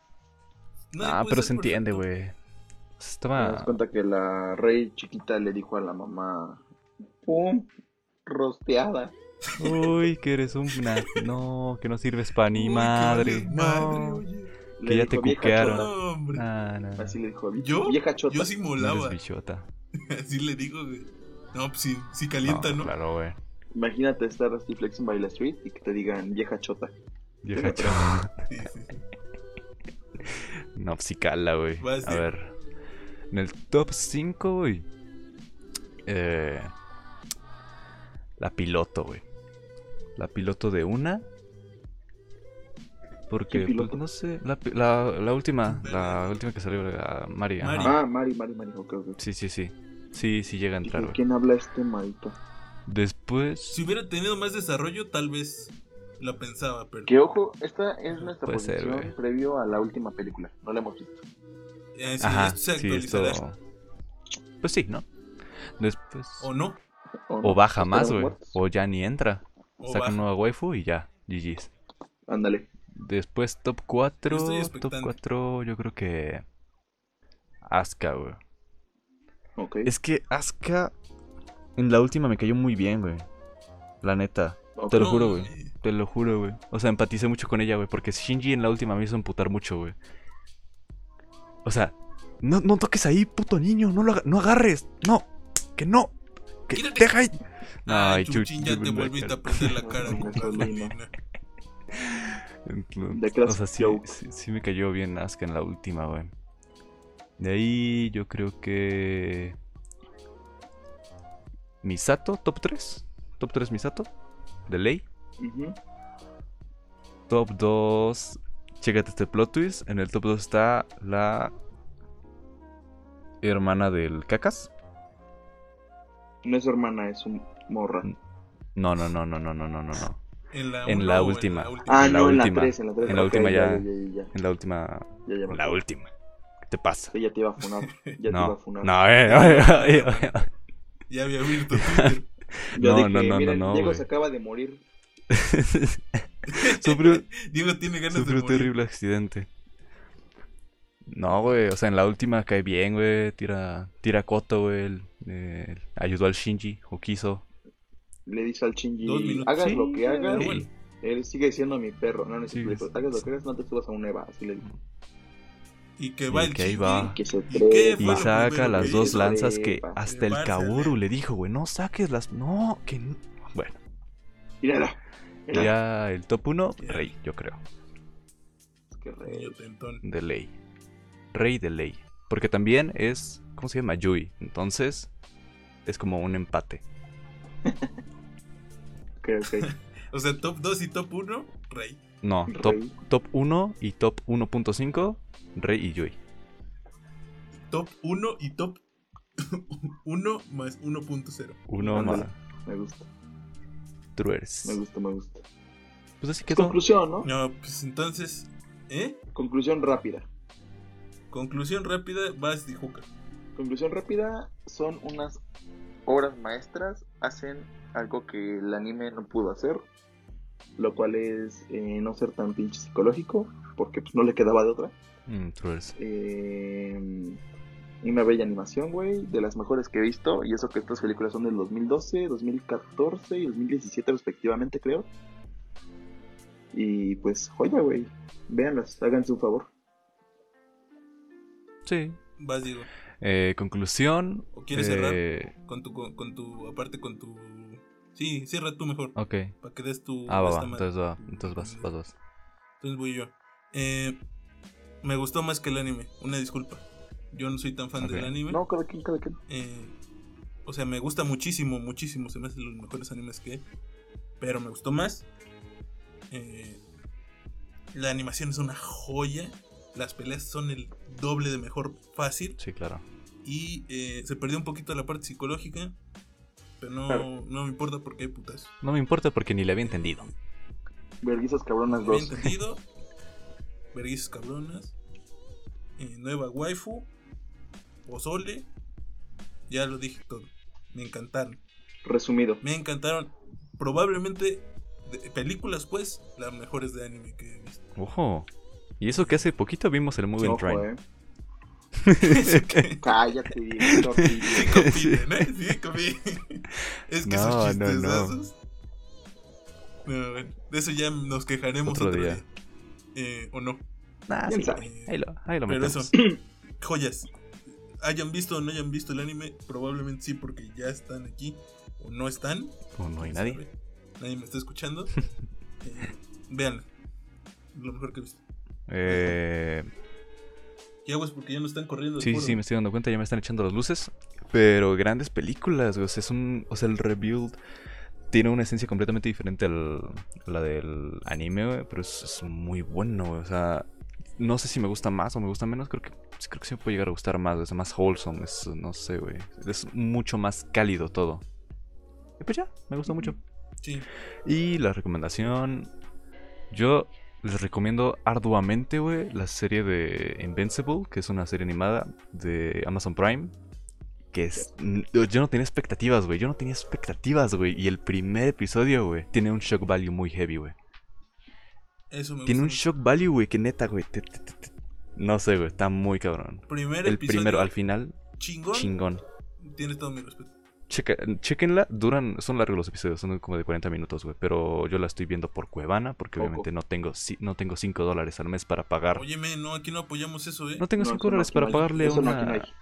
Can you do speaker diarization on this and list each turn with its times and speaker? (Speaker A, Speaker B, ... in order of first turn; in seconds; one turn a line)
Speaker A: 0.9-2.0
Speaker B: 1.0-2.3
Speaker B: 3.0-3.8
Speaker C: 3.4-6.6
Speaker C: 7.2-7.7
Speaker C: 8.2-9.1
Speaker A: 9.5-10.0
Speaker B: 9.6-14.2
Speaker A: 10.7-11.3
Speaker A: 12.5-14.5
Speaker C: 14.8-15.9
Speaker B: 14.8-17.1
Speaker A: 15.4-16.4
Speaker C: 17.0-18.5
Speaker A: 17.6-19.2
Speaker B: 18.8-19.7
Speaker A: 20.0-22.9
Speaker B: 22.4-23.4
Speaker C: 23.7-26.9
Speaker B: 27.4-28.5
Speaker C: 27.5-28.1
Speaker A: 28.5-29.0
Speaker B: 30.7-32.5
Speaker A: 31.8-32.2
Speaker B: 33.3-34.9
Speaker B: 36.0-36.7
Speaker B: 38.4-39.2
Speaker B: 40.1-41.2
Speaker B: 43.3-48.0
Speaker C: 43.5-44.0
Speaker A: 45.6-46.4
Speaker A: 47.6-48.0
Speaker C: 47.8-49.2
Speaker B: 49.2-51.2
Speaker C: 50.8-52.4
Speaker B: 52.9-53.8
Speaker A: 53.7-57.1
Speaker C: 57.0-61.2
Speaker B: 58.4-59.1
Speaker A: 61.9-63.4
Speaker B: 62.2-63.6
Speaker B: 64.6-65.0
Speaker B: 65.8-66.5
Speaker A: 66.4-66.8
Speaker C: 67.3-68.6
Speaker B: 67.4-71.7
Speaker A: 69.8-70.2
Speaker C: 72.3-72.7
Speaker B: 73.0-76.4
Speaker A: 74.2-75.2
Speaker B: 77.7-78.4
Speaker C: 79.6-79.9
Speaker B: 79.8-80.9
Speaker B: 81.8-83.2
Speaker B: 84.0-90.0
Speaker C: 84.8-85.1
Speaker A: 84.9-85.7
Speaker B: 91.6-96.1
Speaker B: 96.7-100.7
Speaker A: 96.7-97.2
Speaker A: 97.8-101.1
Speaker C: 99.8-101.0
Speaker B: 101.9-106.3
Speaker C: 103.1-104.1
Speaker B: 107.4-109.5
Speaker B: 111.8-114.1
Speaker B: 114.7-115.0
Speaker C: 115.4-115.8
Speaker B: 117.3-121.5
Speaker B: 123.4-124.7
Speaker C: 126.4-128.1
Speaker B: 128.7-130.2
Speaker A: 130.5-132.5
Speaker B: 130.8-136.1
Speaker C: 131.8-134.3
Speaker C: 135.2-135.8
Speaker B: 136.7-137.1
Speaker C: 137.1-139.0
Speaker A: 137.6-138.2
Speaker B: 138.3-140.5
Speaker A: 139.2-140.4
Speaker A: 141.1-142.2
Speaker B: 141.7-144.0
Speaker C: 142.7-144.8
Speaker B: 145.3-147.2
Speaker A: 146.5-148.7
Speaker B: 148.1-149.5
Speaker B: 151.1-157.4
Speaker C: 158.2-164.6
Speaker A: 159.0-160.7
Speaker B: 159.6-160.7
Speaker B: 162.5-163.2
Speaker A: 166.0-169.3
Speaker B: 166.3-167.2
Speaker C: 167.1-170.0
Speaker B: 168.0-173.8
Speaker A: 170.0-171.0
Speaker C: 174.6-175.7
Speaker B: 175.5-177.6
Speaker A: 176.8-177.1
Speaker C: 178.9-179.6
Speaker A: 179.2-180.0
Speaker B: 180.0-180.5
Speaker B: 181.3-185.1
Speaker B: 185.8-186.8
Speaker C: 187.7-187.9
Speaker C: 189.2-189.7
Speaker A: 189.5-192.0
Speaker B: 192.2-196.2
Speaker C: 192.5-192.9
Speaker A: 197.7-198.8
Speaker A: 199.4-202.3
Speaker B: 201.7-202.3
Speaker C: 201.9-203.1
Speaker B: 204.2-204.8
Speaker C: 204.6-205.4
Speaker B: 206.2-206.8
Speaker C: 206.5-207.3
Speaker A: 207.2-209.2
Speaker C: 209.3-210.3
Speaker A: 211.3-213.1
Speaker C: 213.6-215.4
Speaker C: 216.1-219.9
Speaker C: 220.8-224.9
Speaker B: 225.3-225.9
Speaker C: 226.0-227.4
Speaker C: 228.0-235.1
Speaker C: 236.7-239.7
Speaker B: 241.8-242.2
Speaker A: 242.4-242.9
Speaker B: 243.2-245.5
Speaker A: 244.5-251.9
Speaker B: 249.2-249.5
Speaker B: 250.3-252.1
Speaker A: 252.8-254.2
Speaker A: 255.0-258.6
Speaker B: 258.0-258.3
Speaker C: 258.4-259.4
Speaker A: 259.5-259.9
Speaker A: 260.6-263.6
Speaker A: 264.4-265.3
Speaker A: 266.3-266.8
Speaker A: 267.9-272.6
Speaker B: 272.6-273.0
Speaker A: 273.4-275.9
Speaker A: 276.8-278.7
Speaker B: 278.8-280.3
Speaker A: 279.8-280.3
Speaker C: 281.2-282.5
Speaker A: 281.9-282.8
Speaker A: 283.9-284.9
Speaker A: 286.0-287.1
Speaker A: 288.0-288.7
Speaker A: 289.7-291.6
Speaker C: 292.0-292.6
Speaker A: 292.6-297.8
Speaker B: 298.0-298.5
Speaker B: 299.0-300.9
Speaker A: 299.1-299.4
Speaker C: 300.4-301.0
Speaker B: 302.0-302.9
Speaker A: 302.2-303.0
Speaker C: 303.0-304.8
Speaker B: 303.9-305.3
Speaker A: 304.4-308.5
Speaker B: 307.2-308.4
Speaker A: 310.0-312.5
Speaker B: 311.9-312.4
Speaker A: 313.1-313.8
Speaker B: 314.3-316.1
Speaker C: 314.4-314.9
Speaker A: 314.6-316.1
Speaker C: 316.1-316.4
Speaker A: 316.8-317.3
Speaker A: 318.0-325.2
Speaker B: 322.9-323.6
Speaker A: 325.8-326.9
Speaker A: 327.7-328.4
Speaker B: 328.9-329.9
Speaker A: 329.1-329.4
Speaker A: 331.0-332.6
Speaker B: 332.2-337.6
Speaker B: 338.3-351.4
Speaker B: 352.4-353.4
Speaker C: 353.1-353.4
Speaker A: 353.8-354.1
Speaker B: 354.4-355.9
Speaker B: 356.7-363.5
Speaker B: 364.3-370.7
Speaker A: 372.1-372.8
Speaker B: 372.5-378.2
Speaker A: 376.7-377.7
Speaker A: 378.4-378.9
Speaker B: 378.7-379.2
Speaker A: 379.6-380.5
Speaker B: 380.9-389.2
Speaker C: 386.4-386.7
Speaker A: 389.1-390.9
Speaker B: 390.8-392.7
Speaker C: 391.0-392.7
Speaker A: 391.6-392.4